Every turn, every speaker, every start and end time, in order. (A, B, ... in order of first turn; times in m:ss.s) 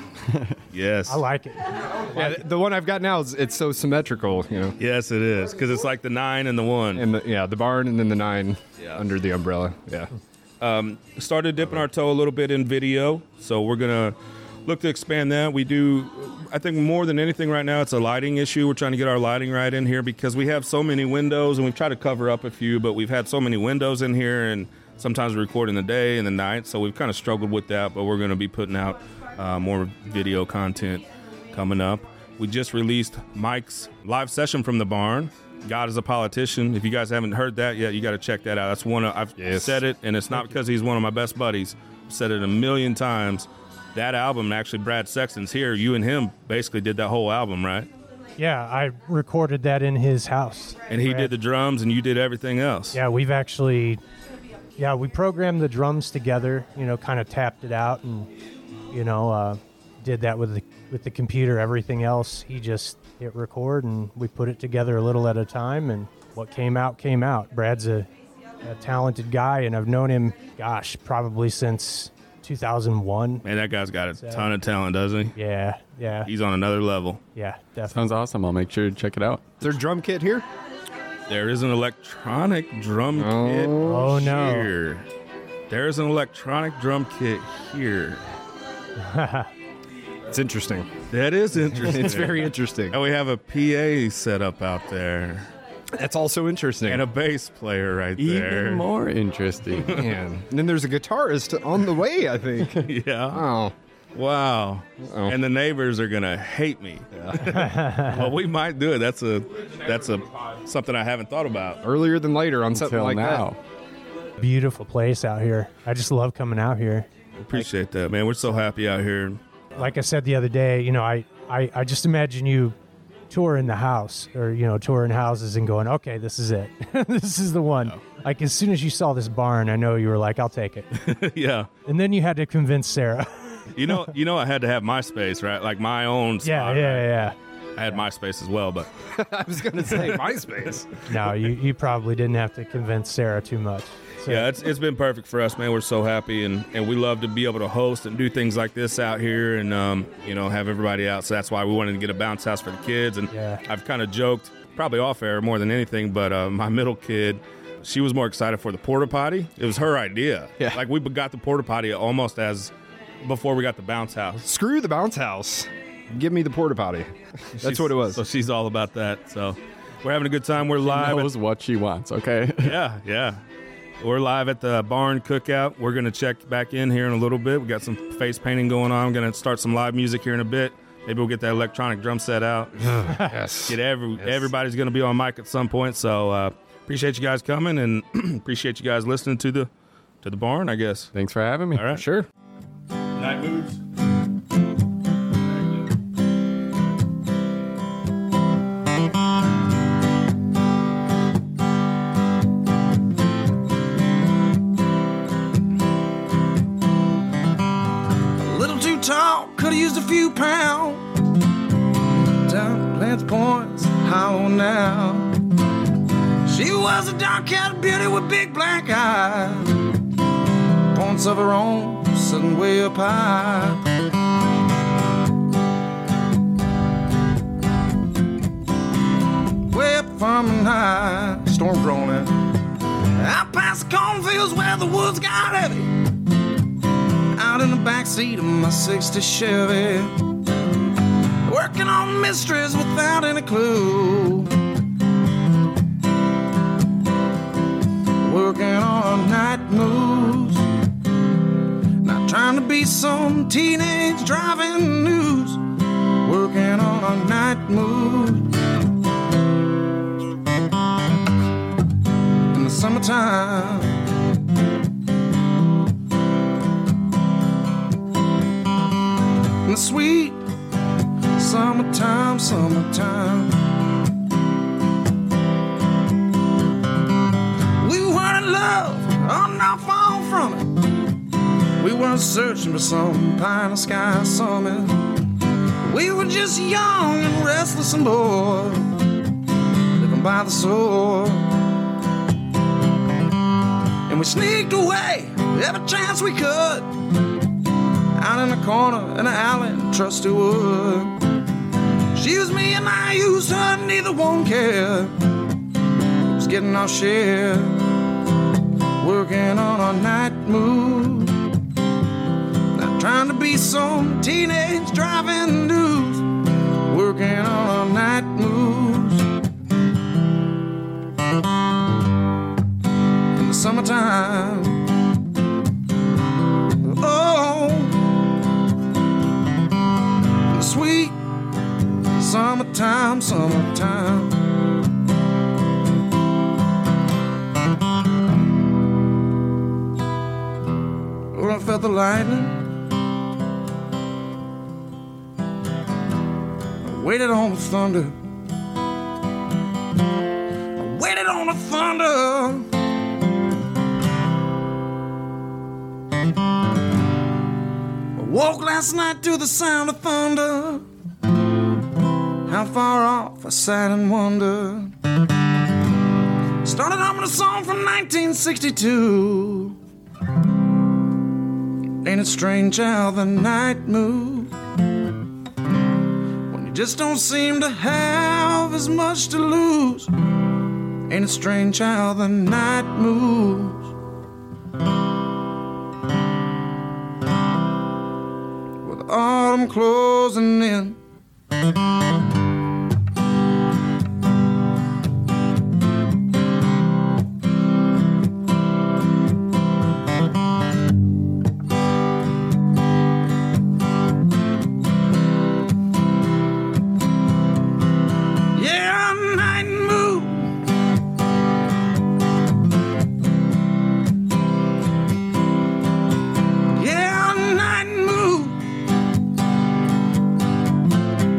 0:00.7-0:01.2 A
0:01.1-0:01.8 B
0:02.0-0:04.8 C
0:04.8-0:07.0 A
0:06.9-0:10.1 C
0:10.6-0:47.9 A
0:39.4-0:39.8 C
0:48.4-0:51.3 B
0:50.9-0:53.0 A
0:52.9-0:54.0 B
0:54.8-0:58.3 B
0:58.9-1:08.1 B
1:08.6-1:13.4 B
1:13.4-1:15.3 A
1:14.1-1:14.5 B
1:15.3-1:16.3 B
1:16.2-1:17.2 A
1:17.3-1:18.0 B
1:17.9-1:19.4 D
1:19.6-1:20.4 C
1:21.3-1:25.1 A
1:23.1-1:24.1 C
1:23.8-1:24.7 B
1:25.7-1:28.2 A
1:29.0-1:29.5 B
1:30.3-1:31.0 C
1:31.1-1:35.5 A
1:31.7-1:33.0 C
1:36.0-1:37.0 C
1:36.8-1:38.9 A
1:38.2-1:39.9 D
1:39.7-1:40.1 A
1:39.9-1:43.7 C
1:42.7-1:43.4 A
1:44.1-1:51.8 A
1:45.0-1:45.4 C
1:47.1-1:47.6 C
1:47.5-1:48.3 B
1:51.8-1:53.4 C
1:52.7-1:53.6 D
1:54.4-1:57.1 B
1:57.4-1:59.4 A
1:59.8-2:02.8 B
2:03.3-2:10.9 B
2:10.9-2:11.7 A
2:11.8-2:13.6 B
2:13.7-2:17.2 A
2:16.4-2:17.4 B
2:17.8-2:18.9 A
2:19.1-2:20.9 C
2:19.8-2:20.8 A
2:21.0-2:24.5 B
2:24.3-2:42.7 A
2:33.3-2:33.6 B
2:43.2-2:44.5 A
2:44.4-2:48.2 C
2:47.6-2:51.3 A
2:50.8-2:52.8 D
2:52.6-2:53.4 A
2:54.0-3:09.7 A
3:02.8-3:04.5 C
3:10.2-3:11.1 A
3:11.1-3:11.8 D
3:11.7-3:12.1 A
3:11.9-3:12.3 C
3:13.2-3:13.8 A
3:28.4-3:31.0 E
3:32.4-3:35.3 E
3:36.4-3:39.9 E
3:40.9-3:43.8 E
3:49.7-3:52.4 E
3:53.2-3:56.0 E
3:57.3-4:00.2 E
4:01.4-4:04.5 E
4:08.2-4:10.7 E
4:12.0-4:15.6 E
4:16.2-4:18.5 E
4:22.5-4:24.1 E
4:29.6-4:30.4 E
4:31.4-4:33.6 E
4:37.8-4:40.8 E
4:41.8-4:45.1 E
4:45.8-4:48.9 E
4:50.0-4:51.5 E
4:54.1-4:56.9 E
4:58.2-5:01.2 E
5:02.1-5:05.2 E
5:06.2-5:07.9 E
5:09.0-5:11.4 E
5:12.7-5:19.3 E
5:23.4-5:24.9 E
5:26.8-5:28.0 E
5:30.5-5:31.2 E
5:32.1-5:34.5 E
5:41.3-5:42.6 E
5:46.8-5:48.2 E
5:50.8-5:52.7 E
5:58.2-6:00.8 E
6:02.5-6:04.9 E
6:06.6-6:09.8 E
6:12.0-6:14.5 E
6:16.5-6:20.1 E
6:21.1-6:23.8 E
6:28.8-6:31.0 E
6:48.5-6:50.6 E
6:56.7-6:58.6 E